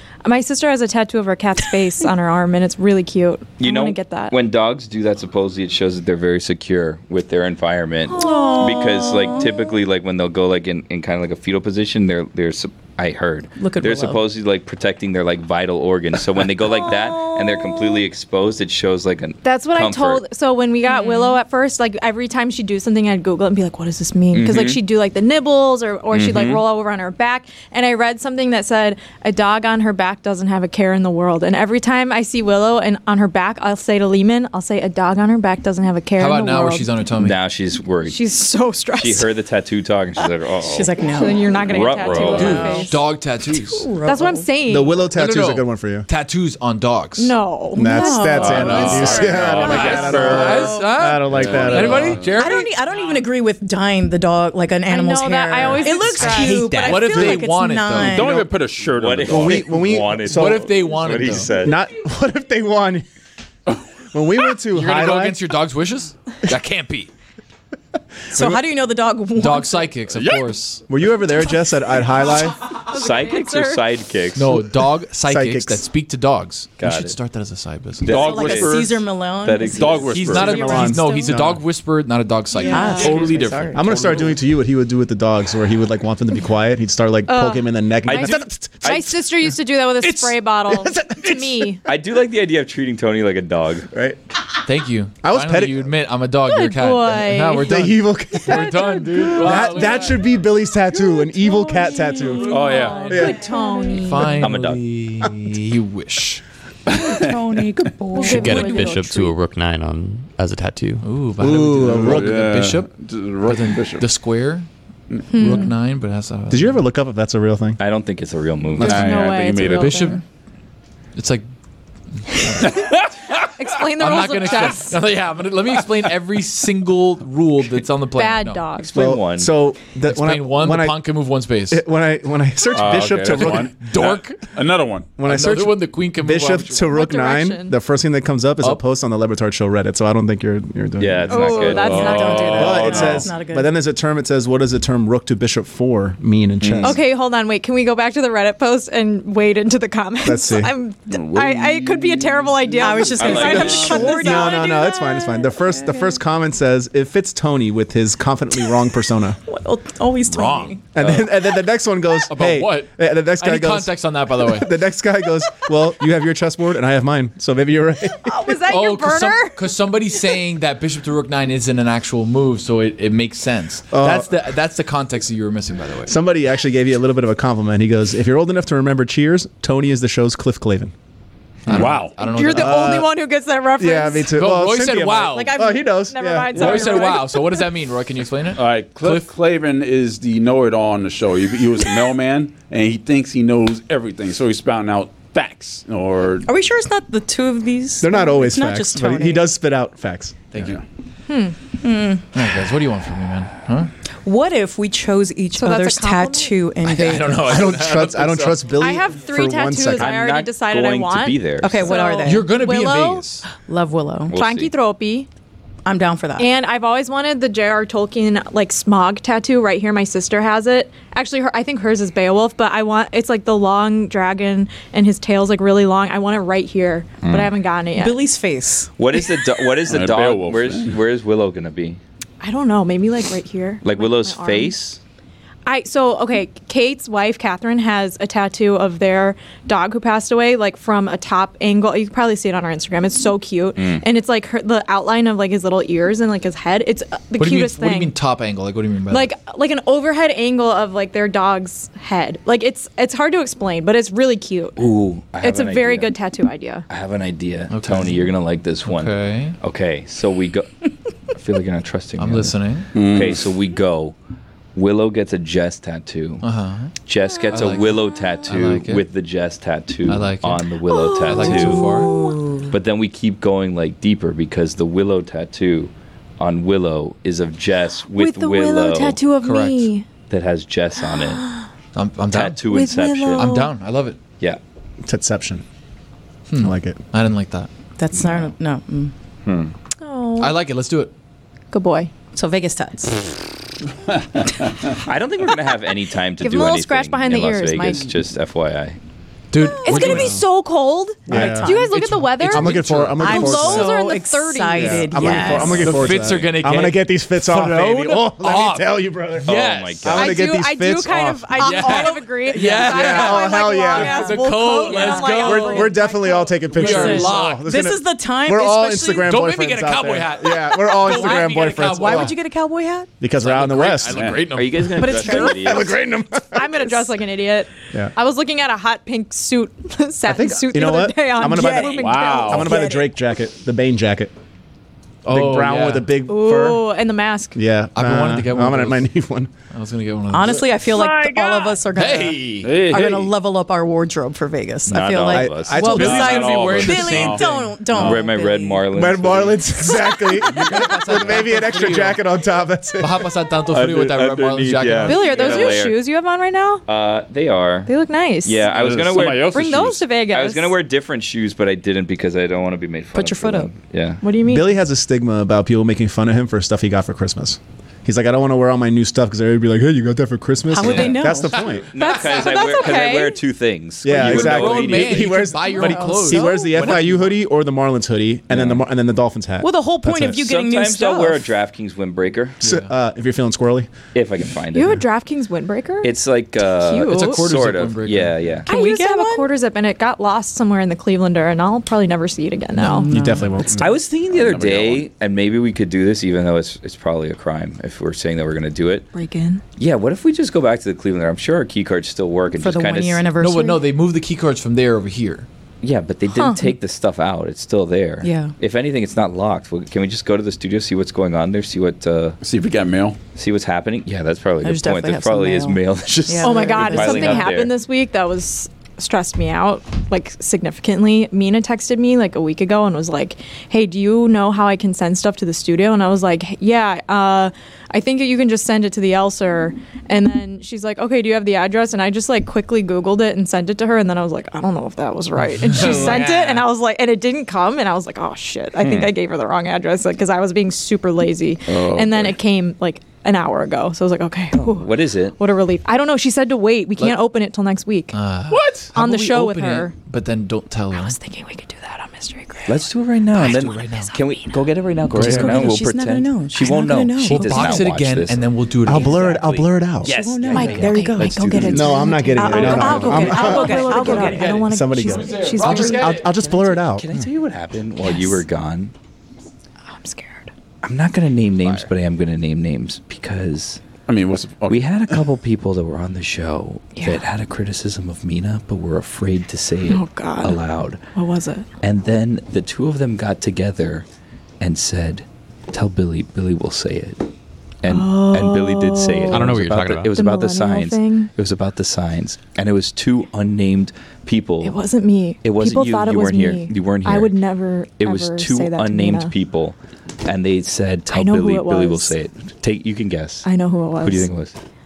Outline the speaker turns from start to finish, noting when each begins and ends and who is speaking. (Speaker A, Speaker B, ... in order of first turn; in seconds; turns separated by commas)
Speaker A: 0.2-4.3, Speaker B: 3.6-20.2, Speaker C: 8.1-9.7, Speaker A: 8.1-9.4, Speaker C: 13.6-14.2, Speaker C: 16.8-17.6, Speaker A: 19.4-36.9, Speaker C: 20.9-21.4, Speaker B: 24.3-24.8, Speaker B: 26.1-26.6, Speaker D: 36.2-37.4, Speaker B: 37.2-38.2, Speaker A: 38.0-39.3, Speaker B: 39.0-41.0, Speaker C: 40.6-44.5, Speaker A: 41.1-43.0, Speaker B: 41.6-42.8, Speaker E: 42.1-42.4, Speaker D: 42.3-43.9, Speaker A: 44.0-45.0, Speaker F: 44.7-46.1, Speaker D: 45.1-47.3, Speaker A: 47.2-49.4, Speaker F: 47.7-52.2, Speaker C: 47.8-51.0, Speaker E: 48.4-50.6, Speaker D: 48.8-52.7, Speaker B: 49.9-50.7, Speaker E: 51.2-52.4, Speaker C: 52.3-58.5, Speaker A: 54.9-57.3, Speaker G: 56.2-57.0, Speaker D: 56.7-58.4, Speaker E: 58.0-59.7, Speaker B: 58.8-61.8, Speaker F: 59.3-60.8, Speaker D: 60.2-61.5, Speaker F: 61.5-63.0, Speaker F: 64.1-65.4, Speaker D: 64.7-67.1, Speaker C: 68.3-69.9, Speaker F: 68.3-68.6, Speaker D: 69.3-70.8, Speaker E: 70.1-70.5, Speaker F: 70.9-72.5, Speaker A: 72.7-73.8, Speaker B: 72.8-74.6, Speaker D: 74.3-78.3, Speaker F: 75.2-75.8, Speaker B: 76.8-77.2, Speaker B: 78.0-80.4, Speaker E: 78.0-79.1, Speaker C: 78.1-81.4, Speaker E: 79.7-80.9, Speaker D: 80.1-83.9, Speaker F: 80.6-81.6, Speaker A: 82.6-83.2, Speaker C: 82.6-84.0, Speaker E: 82.9-84.3, Speaker F: 83.7-89.0, Speaker A: 87.3-91.8, Speaker B: 88.0-89.1, Speaker D: 90.0-90.4, Speaker F: 90.7-91.7, Speaker B: 91.8-93.9, Speaker F: 93.9-94.2, Speaker D: 94.7-100.2, Speaker F: 95.2-95.9, Speaker A: 96.4-97.7, Speaker F: 97.6-103.4, Speaker C: 101.1-104.4, Speaker A: 102.1-104.4, Speaker E: 102.5-103.3, Speaker D: 104.0-106.4, Speaker B: 104.4-104.8, Speaker E: 106.9-107.8, Speaker C: 106.9-109.0, Speaker A: 108.1-109.3, Speaker G: 108.2-111.1, Speaker D: 111.0-114.7, Speaker F: 111.4-112.6, Speaker E: 111.8-114.1, Speaker C: 115.3-115.7, Speaker D: 115.4-116.8, Speaker F: 116.5-117.8, Speaker B: 117.8-119.2, Speaker F: 118.8-119.0, Speaker E: 118.8-120.2, Speaker A: 118.8-120.2, Speaker D: 119.5-120.2, Speaker D: 121.1-121.5, Speaker D: 122.2-122.8, Speaker A: 123.6-125.0, Speaker D: 124.0-128.7, Speaker A: 128.2-128.9, Speaker B: 128.8-129.5, Speaker F: 128.9-131.0, Speaker D: 130.1-131.8, Speaker F: 131.7-133.9, Speaker E: 132.7-135.1, Speaker D: 133.3-134.6, Speaker F: 135.2-141.8, Speaker D: 135.2-136.8, Speaker A: 136.8-137.7, Speaker B: 141.0-143.0, Speaker A: 141.3-142.9, Speaker E: 141.6-143.2, Speaker C: 141.9-143.7, Speaker F: 142.5-147.0, Speaker B: 146.6-147.0, Speaker A: 146.8-155.5, Speaker F: 150.2-150.7, Speaker E: 151.1-154.1, Speaker C: 152.8-154.7, Speaker B: 153.2-154.1, Speaker F: 154.1-159.4, Speaker C: 159.5-160.8, Speaker D: 160.3-160.7, Speaker F: 160.9-168.6, Speaker D: 162.3-162.9, Speaker E: 162.3-162.6, Speaker D: 163.4-164.7, Speaker A: 168.2-169.7, Speaker D: 168.7-176.1, Speaker F: 173.9-174.4, Speaker F: 176.1-180.9, Speaker E: 181.7-182.2, Speaker D: 181.7-183.0, Speaker A: 182.2-184.3, Speaker F: 182.5-183.1, Speaker F: 183.8-186.9, Speaker D: 184.3-185.6, Speaker A: 185.3-187.7, Speaker D: 186.5-189.3, Speaker E: 186.6-187.2, Speaker E: 188.5-196.5, Speaker C: 196.4-199.5, Speaker F: 198.0-200.6, Speaker A: 201.3-201.6, Speaker C: 201.8-202.2, Speaker D: 202.3-203.9, Speaker C: 204.2-207.5, Speaker A: 205.5-206.5, Speaker D: 206.8-208.7, Speaker F: 207.4-210.1, Speaker A: 208.8-213.2, Speaker B: 210.0-211.9, Speaker C: 211.6-212.5, Speaker D: 212.2-213.5, Speaker C: 213.5-214.3, Speaker B: 214.3-214.7, Speaker A: 214.3-215.3, Speaker C: 215.8-216.5, Speaker A: 216.4-228.2, Speaker B: 227.2-227.5, Speaker C: 228.0-228.9, Speaker B: 229.0-232.0, Speaker E: 229.9-231.0, Speaker A: 232.4-234.7, Speaker B: 233.8-235.0, Speaker A: 235.7-248.1, Speaker B: 243.8-244.0, Speaker D: 247.4-249.3, Speaker A: 249.1-254.8, Speaker B: 254.8-256.1, Speaker A: 255.4-256.9, Speaker B: 256.9-260.7, Speaker D: 257.7-258.3, Speaker D: 258.8-259.6, Speaker B: 261.3-264.1, Speaker D: 262.2-262.9, Speaker E: 262.9-263.4, Speaker B: 264.7-266.4, Speaker D: 266.4-266.9, Speaker B: 267.1-272.1, Speaker A: 267.3-268.2, Speaker D: 267.5-269.0, Speaker D: 270.1-270.6, Speaker A: 270.9-272.5, Speaker D: 271.2-272.1, Speaker C: 271.9-272.7, Speaker B: 272.7-279.2, Speaker A: 278.1-280.1, Speaker D: 279.4-279.9, Speaker B: 280.3-281.5, Speaker D: 281.9-282.6, Speaker B: 282.3-283.5, Speaker A: 282.7-283.7, Speaker D: 283.4-284.2, Speaker F: 285.0-285.6, Speaker D: 286.5-287.7, Speaker F: 286.6-287.0, Speaker C: 288.0-289.1, Speaker B: 289.4-289.7, Speaker A: 290.0-290.6, Speaker D: 290.4-291.1, Speaker A: 291.7-292.1, Speaker C: 292.3-293.3, Speaker E: 294.1-294.9, Speaker B: 295.0-299.0, Speaker A: 296.4-298.1, Speaker D: 299.5-300.4, Speaker A: 299.6-305.8, Speaker C: 299.8-300.2, Speaker F: 300.0-300.4, Speaker F: 301.3-304.0, Speaker C: 301.3-306.1, Speaker D: 301.9-303.2, Speaker F: 304.7-311.5, Speaker D: 305.5-310.3, Speaker B: 309.4-310.4, Speaker A: 310.1-317.2, Speaker D: 311.6-316.0, Speaker C: 311.6-313.2, Speaker F: 312.8-314.3, Speaker C: 314.8-315.4, Speaker F: 315.4-322.3, Speaker D: 316.7-317.7, Speaker C: 316.8-319.4, Speaker D: 319.2-322.3, Speaker C: 321.0-323.1, Speaker F: 323.2-324.2, Speaker D: 323.4-325.2, Speaker E: 324.1-324.5, Speaker B: 324.3-326.0, Speaker C: 324.9-325.8, Speaker F: 325.3-327.1, Speaker A: 326.5-332.8, Speaker F: 330.2-334.3, Speaker C: 331.4-333.1, Speaker E: 332.0-332.7, Speaker D: 335.2-336.1, Speaker F: 335.3-336.8, Speaker A: 336.3-337.5, Speaker F: 337.5-339.5, Speaker D: 337.9-339.1, Speaker D: 339.7-340.6, Speaker C: 340.3-348.9, Speaker E: 340.5-341.8, Speaker D: 341.9-342.8, Speaker E: 342.6-343.3, Speaker B: 344.9-346.3, Speaker F: 345.3-346.2, Speaker D: 345.8-347.8, Speaker E: 345.9-348.2, Speaker B: 347.9-349.7, Speaker F: 348.9-353.3, Speaker D: 350.4-352.2, Speaker D: 353.0-355.7, Speaker B: 353.7-356.0, Speaker A: 355.0-356.8, Speaker B: 356.9-357.9, Speaker A: 357.9-358.7, Speaker B: 358.4-364.2, Speaker E: 358.6-360.0, Speaker A: 359.2-360.8, Speaker C: 363.1-363.7, Speaker A: 364.2-364.8, Speaker F: 364.4-371.9, Speaker C: 370.7-371.6, Speaker B: 370.8-371.3, Speaker B: 371.9-375.4, Speaker A: 372.0-373.4, Speaker F: 374.0-380.4, Speaker D: 374.1-377.3, Speaker C: 375.8-376.9, Speaker A: 376.0-376.6, Speaker B: 378.5-378.8, Speaker C: 379.6-381.5, Speaker B: 380.2-382.6, Speaker D: 382.6-382.9, Speaker F: 382.6-383.9, Speaker B: 384.1-385.0, Speaker A: 384.7-386.1, Speaker B: 386.0-388.7, Speaker A: 386.7-387.4, Speaker D: 387.0-388.4, Speaker C: 388.6-389.5, Speaker A: 388.6-393.1, Speaker C: 392.8-394.0, Speaker F: 393.1-394.0, Speaker B: 393.8-399.1, Speaker E: 394.3-395.1, Speaker A: 399.1-399.6, Speaker B: 399.8-403.2, Speaker C: 402.6-403.9, Speaker D: 403.4-405.4, Speaker B: 405.8-412.4, Speaker C: 408.2-408.5, Speaker E: 412.4-413.2, Speaker B: 413.3-417.7, Speaker C: 414.6-417.5, Speaker A: 416.4-448.1, Speaker D: 435.5-436.7, Speaker B: 438.8-439.1, Speaker E: 441.7-442.4, Speaker B: 444.5-445.3, Speaker D: 448.1-451.2, Speaker E: 448.5-448.9, Speaker A: 448.9-449.9, Speaker A: 450.9-452.9, Speaker B: 452.7-458.4, Speaker D: 453.4-454.1, Speaker A: 453.4-454.5, Speaker E: 455.1-455.7, Speaker C: 455.1-457.9, Speaker D: 457.2-459.5, Speaker F: 458.8-460.1, Speaker B: 459.0-461.9, Speaker C: 460.0-464.6, Speaker A: 460.5-466.3, Speaker E: 461.4-461.8, Speaker F: 461.6-467.1, Speaker D: 463.5-466.8, Speaker B: 466.9-468.9, Speaker A: 468.0-468.4, Speaker A: 469.9-470.5, Speaker B: 470.8-473.8, Speaker E: 474.1-475.2, Speaker B: 474.7-481.0, Speaker A: 476.9-477.2, Speaker A: 479.9-481.7, Speaker B: 481.8-484.1, Speaker B: 484.6-487.2, Speaker B: 487.8-494.8, Speaker A: 487.9-489.5, Speaker G: 489.3-490.1, Speaker A: 490.1-491.3, Speaker A: 494.6-499.3, Speaker B: 495.4-497.4, Speaker B: 498.0-503.5, Speaker A: 501.1-502.1, Speaker A: 503.4-504.3, Speaker B: 504.0-504.6